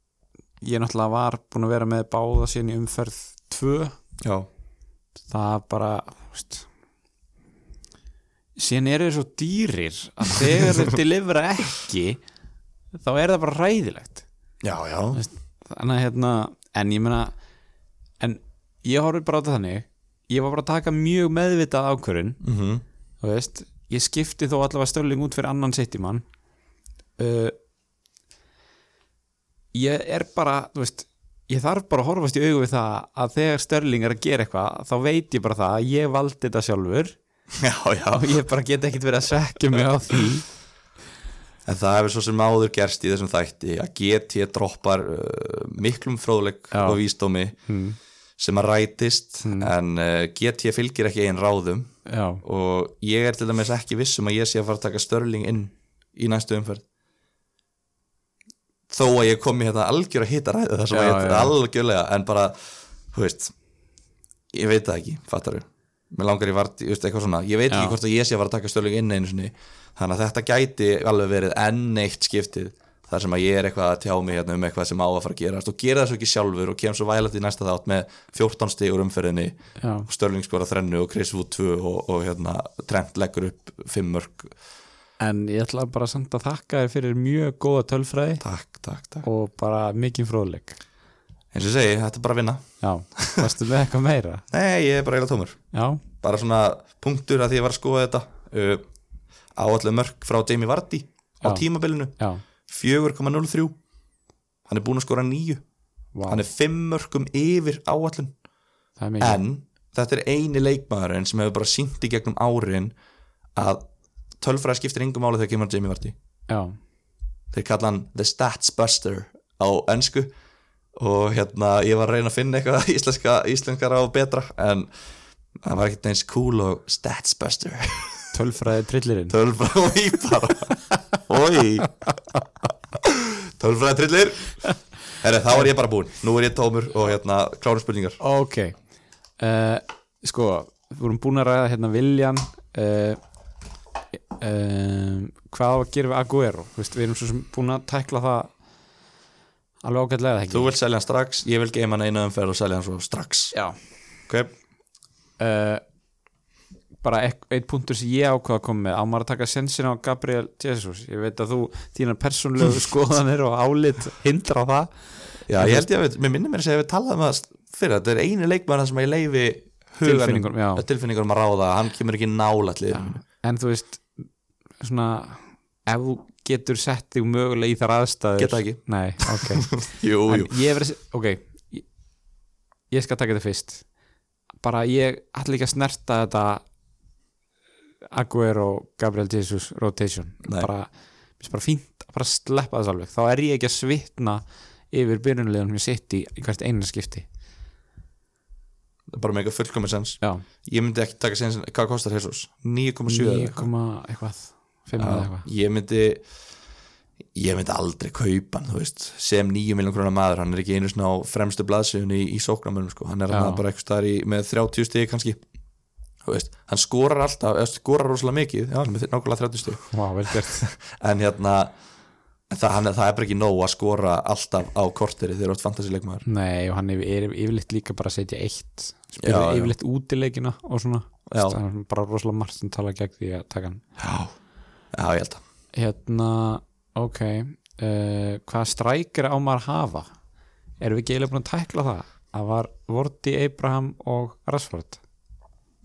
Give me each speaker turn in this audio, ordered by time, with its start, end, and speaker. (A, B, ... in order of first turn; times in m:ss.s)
0:00.6-0:04.0 A
0:04.2-0:04.5 B
0:05.3-0:06.7 A
0:08.6-0:12.2 A
0:12.9-0:14.2 A
0:14.6-0:15.2 B
0:15.1-0:17.3 A
0:18.2-0:22.4 A
0:22.4-0:22.8 B
0:23.2-0:26.2 A
0:27.2-0:27.6 A
0:29.7-0:37.2 A
0:37.6-0:38.4 B
0:38.1-0:40.5 A
0:41.7-0:47.6 B
0:46.7-0:47.0 A
0:47.7-0:48.0 A
0:48.4-0:56.8 B
0:49.4-0:49.7 A
0:52.1-0:52.4 A
0:58.9-1:03.5 B
1:00.9-1:01.6 A
1:04.5-1:19.6 B
1:07.7-1:08.0 A
1:19.8-1:20.1 A
1:20.1-1:24.6 B
1:25.2-1:28.4 A
1:28.4-1:29.3 B
1:29.2-1:30.8 A
1:31.5-1:33.5 B
1:32.8-1:34.4 A
1:34.5-1:35.6 B
1:35.7-1:36.0 A
1:36.2-1:38.8 B
1:39.6-1:42.1 B
1:42.2-1:42.4 A
1:42.7-1:43.8 B
1:44.7-1:45.6 B
1:46.2-1:46.5 A
1:46.3-1:48.3 B
1:49.0-1:49.4 A
1:49.2-1:52.9 B
1:53.6-1:53.8 B
1:54.4-1:56.2 B
1:56.5-1:56.8 A
1:57.5-2:00.3 B
2:01.0-2:04.9 B
2:05.6-2:08.3 B
2:08.3-2:09.4 A
2:09.3-2:11.9 B
2:13.0-2:14.6 B
2:15.1-2:18.2 B
2:18.2-2:18.8 A
2:19.4-2:23.2 A
2:24.4-2:28.5 A
2:29.8-2:30.7 A
2:30.5-2:33.6 B
2:35.4-2:35.8 A
2:37.0-2:44.9 A
2:45.5-2:53.2 B
2:45.5-2:45.9 A
2:50.0-2:50.8 A
2:52.9-2:54.2 A
2:54.8-3:01.8 A
2:58.4-3:00.5 B
3:02.9-3:03.8 A
3:04.6-3:06.6 A
3:08.1-3:17.3 A
3:10.4-3:10.7 B
3:19.1-3:23.6 B
3:23.1-3:25.5 A
3:25.0-3:26.2 B
3:27.4-3:35.4 B
3:33.3-3:33.6 A
3:36.2-3:41.7 B
3:39.9-3:40.7 A
3:42.5-3:46.2 B
3:46.3-3:53.8 A
3:49.2-3:49.8 B
3:51.3-3:51.6 B
3:54.0-3:54.3 B
3:54.9-3:55.4 B
3:55.7-4:00.1 A
4:00.8-4:05.0 A